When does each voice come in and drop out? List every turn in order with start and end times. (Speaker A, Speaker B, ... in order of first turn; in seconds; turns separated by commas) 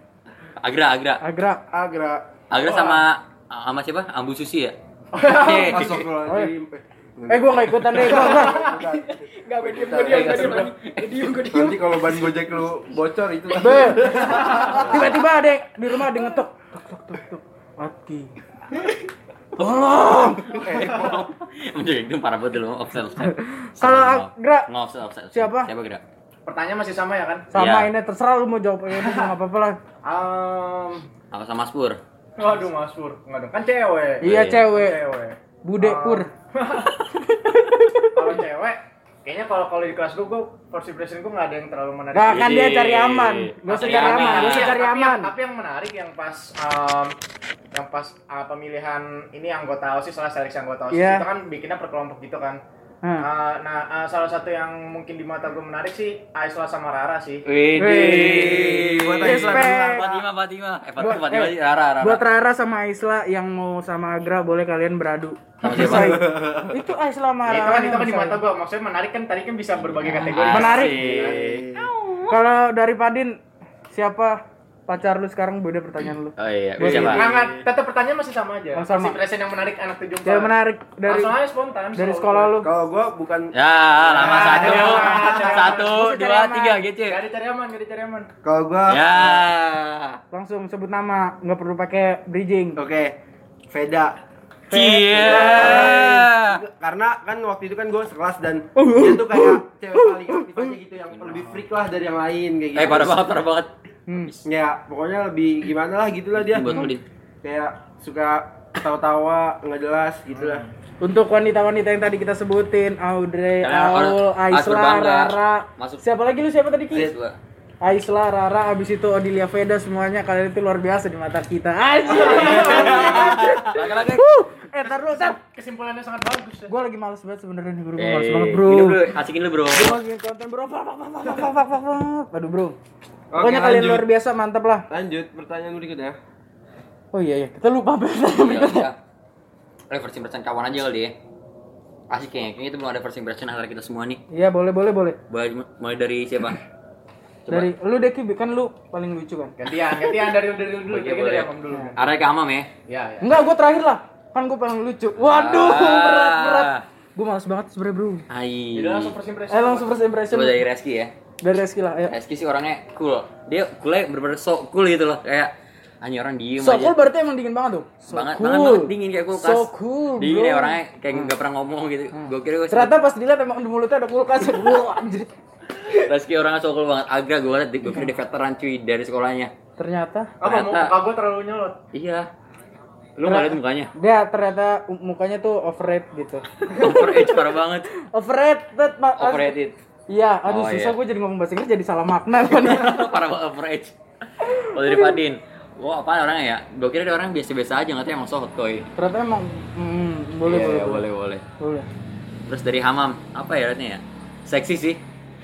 Speaker A: 0.6-1.2, Speaker B: 1.2-1.6, Speaker C: 1.7-2.3, Speaker A: 2.5-6.1, Speaker D: 2.7-2.9, Speaker D: 5.2-5.7, Speaker C: 5.3-10.7, Speaker B: 6.3-6.5, Speaker B: 7.3-8.7, Speaker E: 8.5-12.4, Speaker A: 10.1-10.6, Speaker D: 10.2-10.7, Speaker C: 11.5-15.2, Speaker B: 13.6-18.3, Speaker D: 14.2-14.8, Speaker A: 14.4-15.2, Speaker B: 19.6-20.7, Speaker C: 20.5-21.3, Speaker A: 20.5-26.0, Speaker B: 23.3-24.7, Speaker B: 25.3-25.7, Speaker D: 26.5-27.5, Speaker B: 27.5-29.8, Speaker A: 27.5-27.9, Speaker D: 28.9-29.3, Speaker D: 30.0-31.1, Speaker A: 31.3-32.0, Speaker D: 32.4-37.0, Speaker A: 34.2-34.6, Speaker B: 34.2-35.0, Speaker B: 35.6-36.3, Speaker B: 37.3-38.3, Speaker D: 38.1-42.6, Speaker B: 42.1-45.3, Speaker A: 42.3-44.8, Speaker D: 43.7-47.2, Speaker D: 47.7-52.6, Speaker B: 50.9-51.3, Speaker D: 53.2-57.4, Speaker A: 57.5-62.2, Speaker B: 57.8-60.0, Speaker C: 57.9-60.3, Speaker B: 61.0-68.4, Speaker A: 65.6-66.3, Speaker C: 65.8-66.8, Speaker D: 67.5-71.4, Speaker A: 70.0-71.6, Speaker B: 70.2-71.0, Speaker C: 71.0-71.9, Speaker B: 72.3-73.4, Speaker B: 73.9-77.3, Speaker A: 76.4-77.2, Speaker D: 76.8-82.6, Speaker C: 76.8-77.7, Speaker B: 78.8-79.2, Speaker B: 80.3-81.4, Speaker B: 82.0-82.7, Speaker C: 82.6-83.5, Speaker A: 83.5-87.2, Speaker C: 84.1-84.6, Speaker D: 84.1-86.0, Speaker B: 84.5-86.8, Speaker D: 87.1-88.3, Speaker C: 88.4-89.4, Speaker A: 88.9-90.2, Speaker B: 90.3-92.8, Speaker C: 92.8-93.2, Speaker C: 93.7-94.2, Speaker B: 94.7-96.2, Speaker A: 94.7-96.6, Speaker C: 95.2-103.3, Speaker B: 98.8-100.7, Speaker A: 102.8-103.7, Speaker B: 104.1-104.4, Speaker C: 104.5-106.9, Speaker A: 106.4-107.0, Speaker C: 107.4-110.6, Speaker D: 110.3-110.7, Speaker B: 111.0-117.1, Speaker A: 113.6-116.1, Speaker A: 116.9-117.4, Speaker B: 117.8-125.4, Speaker D: 122.1-123.5, Speaker A: 122.2-124.2, Speaker D: 125.0-126.7, Speaker B: 126.7-129.1, Speaker A: 128.0-130.0, Speaker B: 129.7-132.8, Speaker C: 133.3-134.1, Speaker B: 133.3-134.9, Speaker C: 134.9-136.2, Speaker B: 137.1-138.9, Speaker A: 138.4-139.0, Speaker A: 139.9-141.2, Speaker A: 142.1-144.2, Speaker B: 144.3-145.2, Speaker A: 145.3-146.6, Speaker A: 147.5-147.7, Speaker B: 147.5-149.6, Speaker D: 149.6-152.1, Speaker A: 150.9-152.7, Speaker D: 152.9-153.3, Speaker B: 153.2-158.2, Speaker A: 155.2-156.8, Speaker A: 158.3-159.2, Speaker D: 158.7-160.0, Speaker B: 159.5-160.6, Speaker A: 160.3-161.1, Speaker B: 161.4-162.1, Speaker A: 162.1-167.0, Speaker B: 166.6-171.3, Speaker A: 168.1-173.0, Speaker B: 172.2-175.3, Speaker A: 175.9-179.5, Speaker B: 179.8-180.4, Speaker D: 180.4-181.8, Speaker A: 180.4-181.0, Speaker A: 181.9-182.3, Speaker A: 183.2-183.9, Speaker B: 183.2-189.6, Speaker A: 186.7-187.9, Speaker A: 189.2-189.8, Speaker B: 190.1-193.1, Speaker A: 190.4-191.0, Speaker A: 192.5-198.9, Speaker B: 194.4-195.2, Speaker B: 199.0-201.0, Speaker A: 200.4-201.4, Speaker B: 201.6-201.9, Speaker A: 202.5-205.0